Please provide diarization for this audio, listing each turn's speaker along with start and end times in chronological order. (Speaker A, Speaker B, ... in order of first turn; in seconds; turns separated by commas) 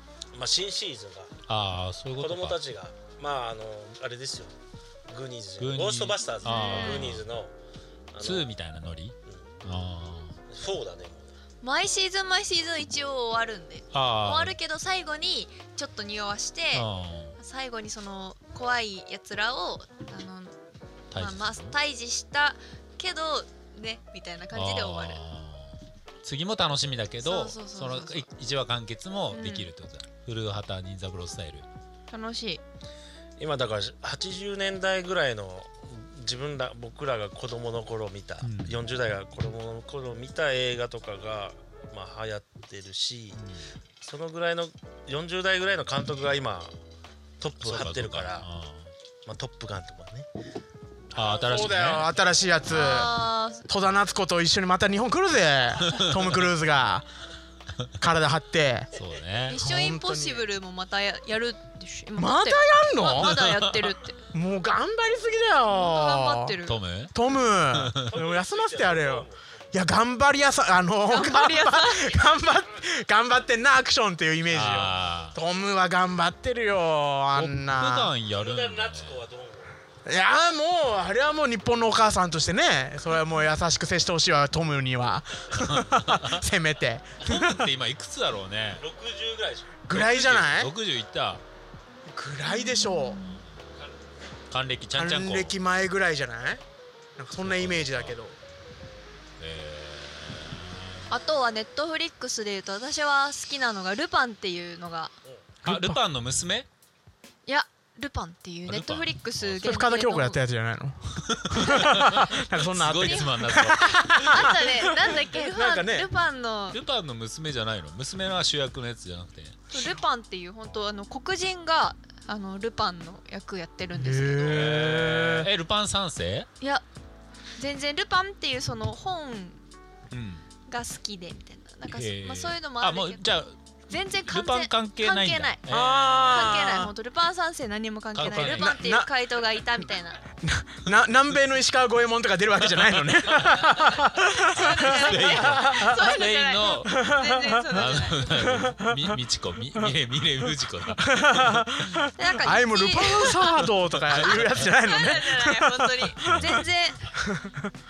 Speaker A: 0.3-1.4, Speaker B: 1.5-2.6, Speaker A: 2.1-4.5, Speaker A: 5.1-7.5, Speaker B: 5.6-7.2, Speaker C: 6.4-7.1, Speaker A: 8.1-8.5, Speaker B: 8.2-10.4, Speaker A: 10.5-11.3, Speaker C: 11.6-20.5, Speaker B: 13.9-14.5, Speaker B: 16.7-17.4, Speaker B: 21.1-21.7, Speaker C: 21.1-25.2, Speaker B: 24.5-31.7, Speaker C: 27.2-28.3, Speaker C: 29.3-29.7, Speaker C: 32.1-32.6, Speaker A: 33.4-43.4, Speaker B: 38.4-38.8, Speaker B: 43.3-43.7, Speaker A: 44.0-46.8, Speaker A: 47.4-48.5, Speaker B: 47.6-48.9, Speaker A: 49.2-50.3, Speaker B: 51.1-52.1, Speaker D: 51.1-57.0, Speaker A: 51.2-51.9, Speaker C: 52.7-53.6, Speaker D: 58.0-58.9, Speaker B: 58.9-59.6, Speaker C: 59.5-64.2, Speaker D: 59.6-60.5, Speaker D: 62.1-63.4, Speaker B: 63.1-63.9, Speaker D: 64.3-66.6, Speaker C: 65.7-66.8, Speaker B: 66.7-67.1, Speaker D: 67.1-78.1, Speaker B: 67.7-68.1, Speaker A: 68.0-69.7, Speaker C: 71.1-72.2, Speaker B: 74.5-75.4, Speaker B: 77.3-79.2, Speaker A: 78.3-79.8, Speaker D: 80.0-87.7, Speaker B: 85.6-86.4, Speaker B: 87.2-88.9, Speaker A: 88.7-89.8, Speaker D: 89.8-90.7, Speaker B: 89.9-91.4, Speaker D: 92.1-93.2, Speaker C: 92.5-93.4, Speaker B: 94.5-95.6, Speaker D: 94.9-96.6, Speaker D: 97.2-98.4, Speaker B: 97.4-98.2, Speaker B: 99.4-101.0, Speaker C: 101.1-105.1, Speaker D: 105.6-106.0, Speaker B: 105.6-106.7, Speaker C: 107.5-110.4, Speaker B: 108.7-109.6, Speaker D: 109.6-116.1, Speaker B: 111.3-114.6, Speaker C: 111.5-112.1, Speaker C: 112.9-116.8, Speaker B: 116.7-119.7, Speaker C: 119.7-124.7, Speaker D: 123.9-125.5, Speaker B: 124.4-126.5, Speaker C: 127.6-129.6, Speaker B: 130.1-130.4, Speaker C: 130.7-133.3, Speaker B: 131.9-136.7, Speaker C: 133.9-140.2, Speaker D: 135.7-136.9, Speaker B: 138.1-138.8, Speaker D: 138.2-139.1, Speaker D: 140.4-146.2, Speaker B: 142.8-147.0, Speaker C: 144.3-148.4, Speaker D: 146.8-149.2, Speaker B: 147.7-152.1, Speaker D: 151.0-156.6, Speaker C: 152.2-157.1, Speaker B: 154.1-154.7, Speaker B: 156.2-156.6, Speaker D: 157.2-157.7